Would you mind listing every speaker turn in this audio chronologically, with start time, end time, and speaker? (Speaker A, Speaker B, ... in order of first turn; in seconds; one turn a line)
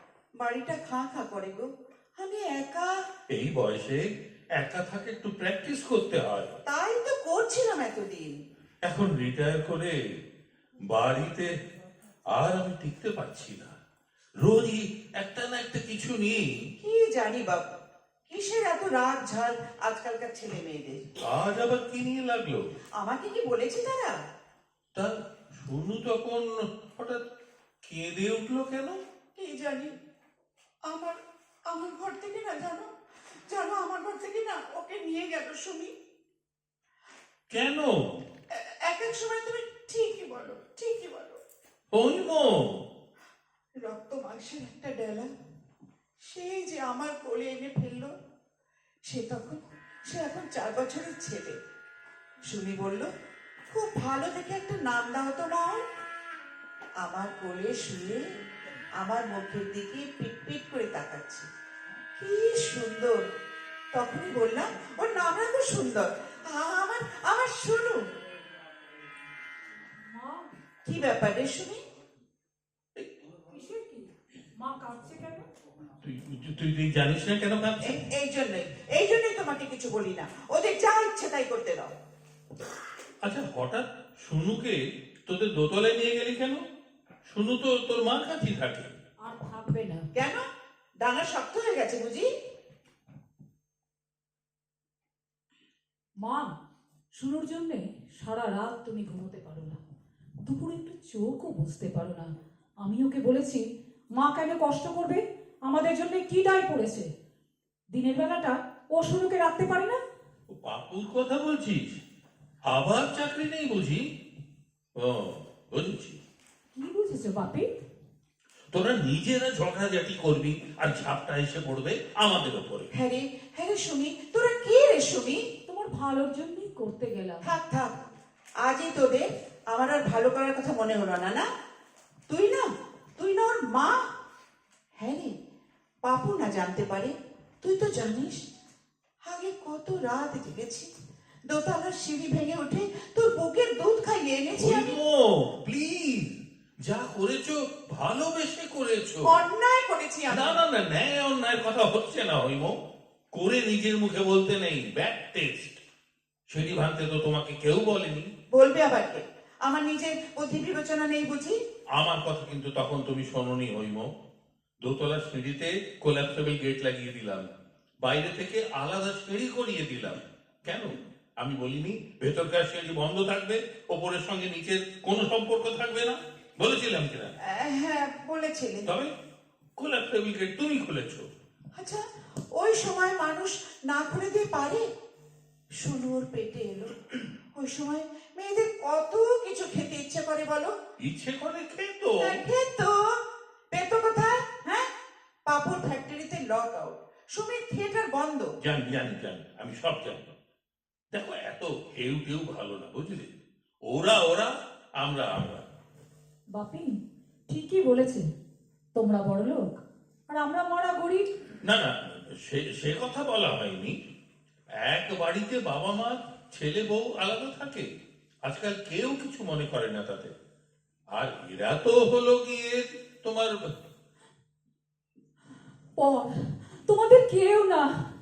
Speaker A: 0.4-3.0
Speaker B: 3.3-4.0
Speaker B: 4.6-6.6
Speaker A: 6.7-8.4
Speaker B: 8.8-10.0
Speaker B: 10.9-11.5
Speaker B: 12.3-13.8
Speaker B: 14.4-16.5
Speaker A: 16.8-17.7
Speaker A: 18.3-21.1
Speaker B: 21.2-22.6
Speaker A: 23.0-24.1
Speaker B: 24.9-27.2
Speaker B: 27.8-29.0
Speaker A: 29.3-29.9
Speaker A: 30.9-32.9
Speaker A: 33.5-35.9
Speaker B: 37.5-38.0
Speaker A: 38.5-41.4
Speaker B: 41.9-42.8
Speaker A: 43.8-45.3
Speaker A: 46.2-48.1
Speaker A: 49.1-51.6
Speaker A: 52.5-53.1
Speaker A: 53.7-55.8
Speaker A: 57.0-58.3
Speaker A: 59.0-61.5
Speaker A: 62.2-63.2
Speaker A: 63.9-68.0
Speaker C: 70.0-70.5
Speaker A: 70.8-71.8
Speaker C: 73.5-75.5
Speaker B: 76.0-78.0
Speaker A: 77.8-81.9
Speaker B: 83.2-86.6
Speaker B: 87.2-88.9
Speaker C: 89.2-90.1
Speaker A: 90.1-90.4
Speaker A: 91.0-92.3
Speaker C: 96.2-96.5
Speaker C: 97.2-99.8
Speaker C: 100.4-107.1
Speaker C: 107.9-110.0
Speaker B: 110.5-112.0
Speaker B: 112.6-114.0
Speaker B: 115.0-116.2
Speaker C: 116.7-117.7
Speaker B: 118.7-122.9
Speaker A: 122.9-125.5
Speaker C: 125.7-127.4
Speaker A: 127.4-128.0
Speaker A: 128.6-131.4
Speaker A: 132.3-134.1
Speaker A: 135.0-135.3
Speaker A: 136.0-138.4
Speaker A: 139.2-140.9
Speaker A: 141.5-145.0
Speaker B: 144.5-149.3
Speaker A: 149.2-150.6
Speaker B: 150.3-152.8
Speaker B: 153.3-155.8
Speaker B: 156.5-158.3
Speaker A: 158.5-161.6
Speaker B: 161.9-164.1
Speaker B: 164.8-167.5
Speaker B: 168.0-177.3
Speaker A: 177.4-178.9
Speaker B: 178.8-179.1
Speaker B: 179.8-181.3
Speaker A: 181.8-184.8
Speaker A: 185.8-190.7
Speaker B: 191.0-192.4
Speaker A: 192.2-193.2
Speaker A: 193.7-194.9
Speaker A: 195.4-198.5
Speaker B: 198.6-200.3
Speaker B: 201.1-203.3
Speaker B: 203.9-205.7
Speaker C: 206.5-208.3
Speaker C: 208.9-211.3
Speaker B: 211.6-213.9
Speaker B: 214.8-217.9
Speaker B: 218.4-220.3
Speaker B: 221.1-223.7
Speaker C: 226.0-228.1